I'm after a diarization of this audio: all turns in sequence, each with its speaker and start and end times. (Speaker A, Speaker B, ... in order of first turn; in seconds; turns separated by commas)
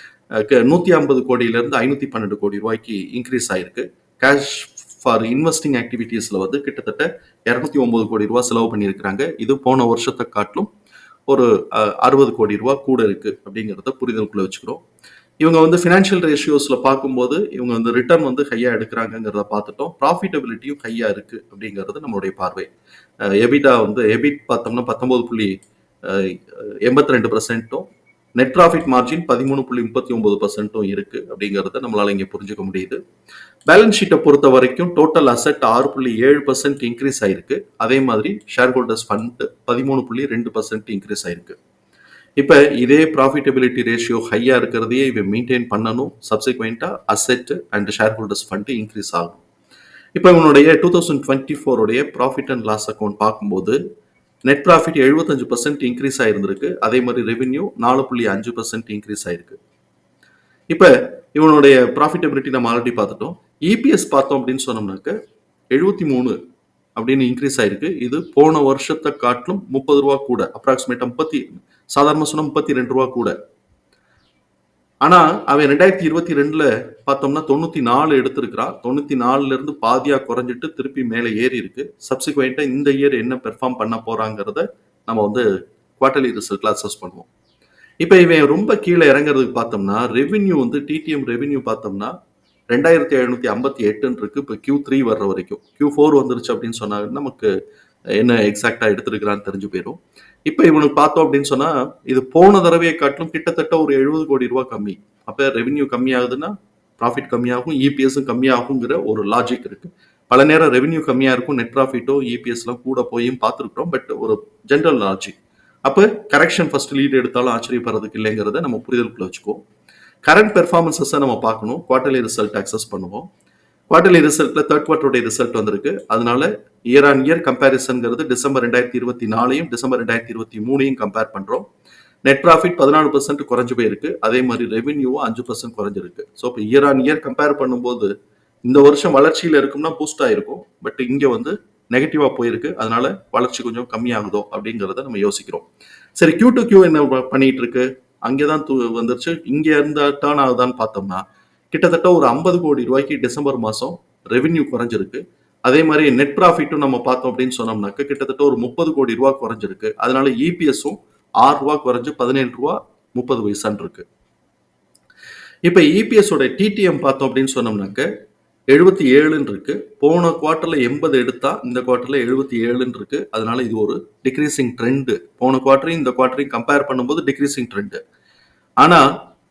Speaker A: 0.3-10.7, Speaker A: 11.3-14.8, Speaker A: 15.4-22.7, Speaker A: 23.4-27.9, Speaker A: 28.4-33.0, Speaker A: 33.7-41.6, Speaker A: 42.4-49.4, Speaker A: 50.1-53.8, Speaker A: 54.5-59.6, Speaker A: 60.7-65.2, Speaker A: 65.7-66.3, Speaker A: 67.0-73.3, Speaker A: 75.0-85.4, Speaker A: 86.0-87.3, Speaker A: 88.0-92.1, Speaker A: 92.7-97.5, Speaker A: 98.2-119.6, Speaker A: 120.2-123.3, Speaker A: 123.9-131.7, Speaker A: 132.2-138.1, Speaker A: 138.7-145.7, Speaker A: 146.2-164.0, Speaker A: 165.7-168.1, Speaker A: 168.7-178.0